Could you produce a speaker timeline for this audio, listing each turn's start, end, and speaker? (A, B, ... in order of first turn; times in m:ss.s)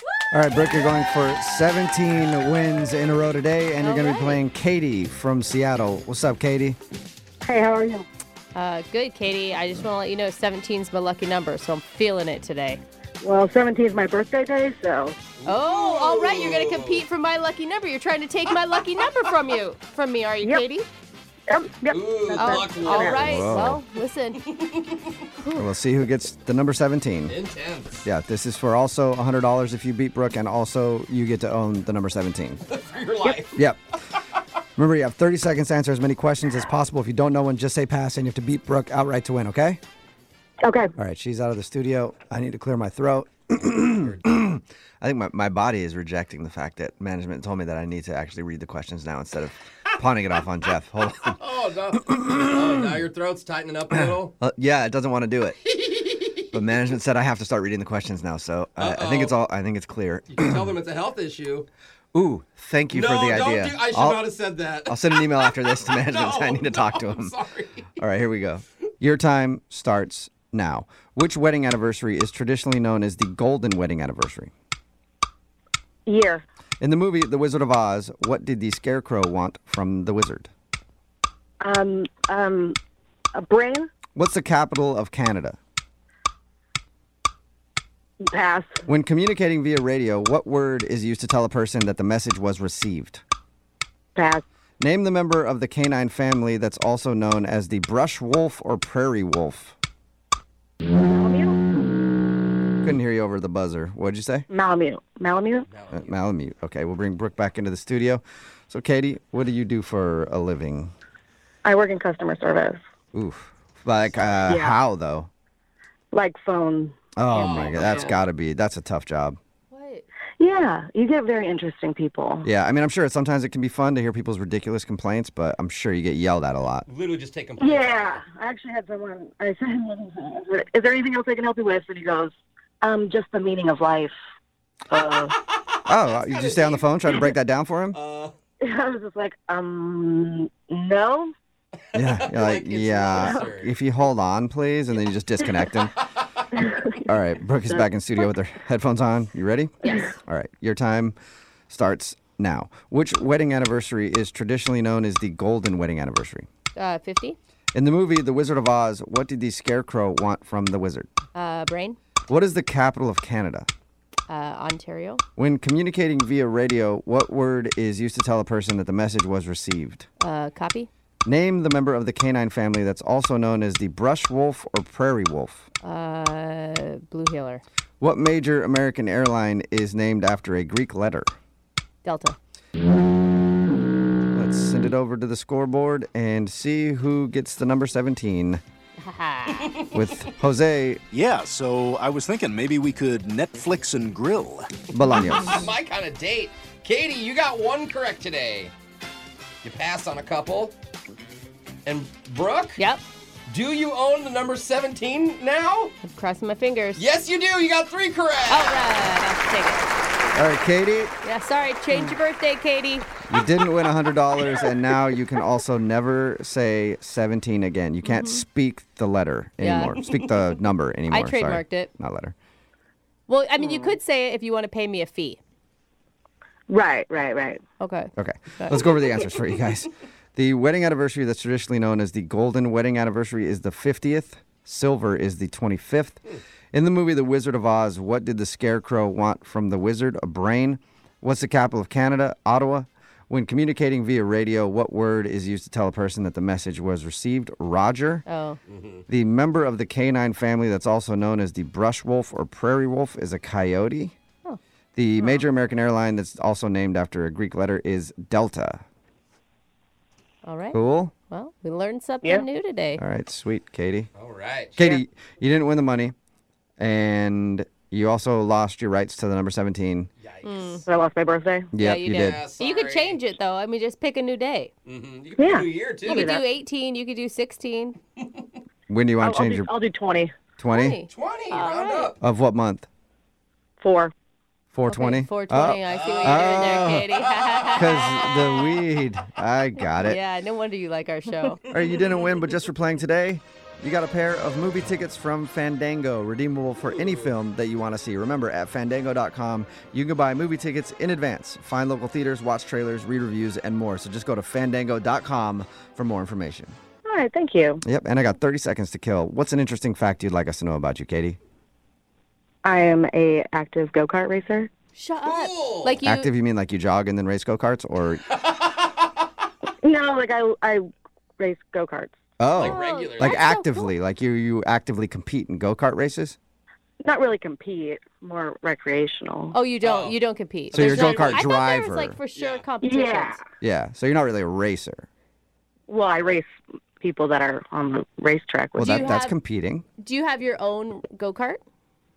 0:00.3-0:06.8 A
0:03.8-0:04.4 B
0:07.4-0:08.1 C
0:08.5-0:12.8 B
0:13.2-0:15.2 C
0:15.4-0:17.0 D
0:15.4-0:20.9 B
0:21.5-0:23.3 C
0:21.9-0:23.4 D
0:22.4-0:24.4 B
0:23.2-0:23.8 A
0:24.4-0:25.0 D
0:25.4-0:25.7 B
0:25.5-0:27.4 A
0:27.3-0:28.0 D
0:28.0-0:32.6 A
0:32.7-0:33.5 D
0:33.5-0:33.8 A
0:34.8-0:39.8 A
0:40.6-0:40.9 C
0:41.0-0:51.4 A
0:51.2-0:54.3 D
0:52.1-0:52.6 A
0:53.9-0:55.6 A
0:55.8-0:56.4 D
0:56.5-1:00.7 A
0:58.8-0:59.4 D
1:00.3-1:01.7 D
1:02.1-1:04.3 A
1:02.9-1:08.0 D
1:04.8-1:07.3 A
1:08.0-1:14.5 A
1:16.0-1:16.4 C
1:16.8-1:20.5 A
1:21.6-1:22.8 C
1:23.3-1:23.9 C
1:24.1-1:25.6 A
1:28.2-1:28.8 C
1:28.8-1:33.2 A
1:34.2-1:34.4 C
1:34.8-1:39.8 A
1:41.0-1:41.6 C
1:42.8-1:44.5 A
1:44.5-1:45.7 C
1:45.7-1:46.1 D
1:45.9-1:50.9 A
1:51.6-1:52.8 C
1:53.1-1:55.3 A
1:54.5-1:54.8 C
1:56.1-1:57.0 C
1:57.2-1:59.4 A
1:57.4-1:57.7 B
1:57.6-1:58.1 D
1:59.7-2:00.0 B
2:00.4-2:02.5 C
2:02.4-2:06.9 A
2:06.9-2:08.2 D
2:07.6-2:14.1 C
2:14.9-2:15.3 C
2:15.3-2:16.8 D
2:15.8-2:18.0 A
2:17.9-2:18.3 D
2:18.6-2:21.3 C
2:21.9-2:25.9 A
2:21.9-2:23.7 D
2:23.2-2:23.4 C
2:26.6-2:27.0 C
2:27.0-2:31.2 A
2:29.8-2:30.1 B
2:31.7-2:36.5 A
2:36.8-2:37.4 B
2:37.7-2:41.1 A
2:41.3-2:42.0 B
2:42.3-2:43.7 A
2:44.3-2:45.2 B
2:45.4-2:50.1 A
2:50.2-2:50.9 B
2:51.2-2:55.7 A
2:55.8-2:57.6 B
2:58.0-3:01.3 A
3:02.0-3:02.4 B
3:04.3-3:08.6 A
3:09.0-3:09.8 B
3:09.6-3:09.9 D
3:09.9-3:11.0 A
3:11.1-3:14.7 E
3:14.9-3:15.6 A
3:15.1-3:15.5 B
3:15.2-3:18.7 D
3:19.6-3:20.7 D
3:21.8-3:22.8 D
3:22.8-3:23.0 B
3:23.5-3:25.9 D
3:26.0-3:27.0 B
3:27.0-3:28.9 D
3:28.5-3:29.9 B
3:30.3-3:31.1 A
3:31.2-3:33.1 B
3:33.3-3:42.3 A
3:38.0-3:38.4 B
3:39.6-3:40.0 B
3:41.1-3:41.9 B
3:43.3-3:45.4 B
3:43.6-3:44.0 C
3:46.7-3:47.6 C
3:47.8-3:48.8 B
3:48.2-3:56.2 A
3:56.7-4:08.2 A
4:08.3-4:08.6 B
4:09.1-4:14.1 A
4:15.0-4:18.8 A
4:20.4-4:23.0 B
4:20.7-4:21.1 A
4:23.0-4:24.1 A
4:24.2-4:24.8 D
4:24.8-4:26.1 A
4:26.8-4:30.1 A
4:30.2-4:30.9 D
4:30.4-4:30.8 B
4:30.9-4:31.7 C
4:31.7-4:32.4 A
4:31.8-4:34.7 B
4:32.1-4:33.2 D
4:34.8-4:36.3 D
4:35.4-4:36.4 C
4:36.0-4:38.0 B
4:38.9-4:39.7 A
4:39.2-4:40.3 C
4:40.6-4:41.0 A
4:40.6-4:42.1 B
4:41.1-4:42.2 D
4:42.2-4:42.9 A
4:43.8-4:44.1 C
4:44.7-4:47.1 A
4:44.9-4:48.2 B
4:45.9-4:47.7 D
4:47.7-4:50.2 A
4:49.8-4:51.6 B
4:51.7-5:06.8 A
5:07.0-5:07.8 C
5:07.8-5:11.4 A
5:12.6-5:14.7 C
5:15.0-5:16.3 B
5:15.2-5:16.0 D
5:16.0-5:18.2 A
5:18.3-5:18.9 D
5:19.8-5:22.2 C
5:22.4-5:26.4 A
5:22.5-5:23.4 D
5:22.6-5:23.9 B
5:27.0-5:29.6 C
5:29.5-5:33.4 B
5:29.8-5:30.2 D
5:30.7-5:31.4 D
5:30.7-5:32.2 A
5:32.3-5:32.6 D
5:32.8-5:33.4 C
5:33.6-5:35.1 A
5:35.9-5:36.5 C
5:37.0-5:39.1 C
5:38.8-5:39.8 A
5:38.8-5:39.3 B
5:40.0-5:41.6 B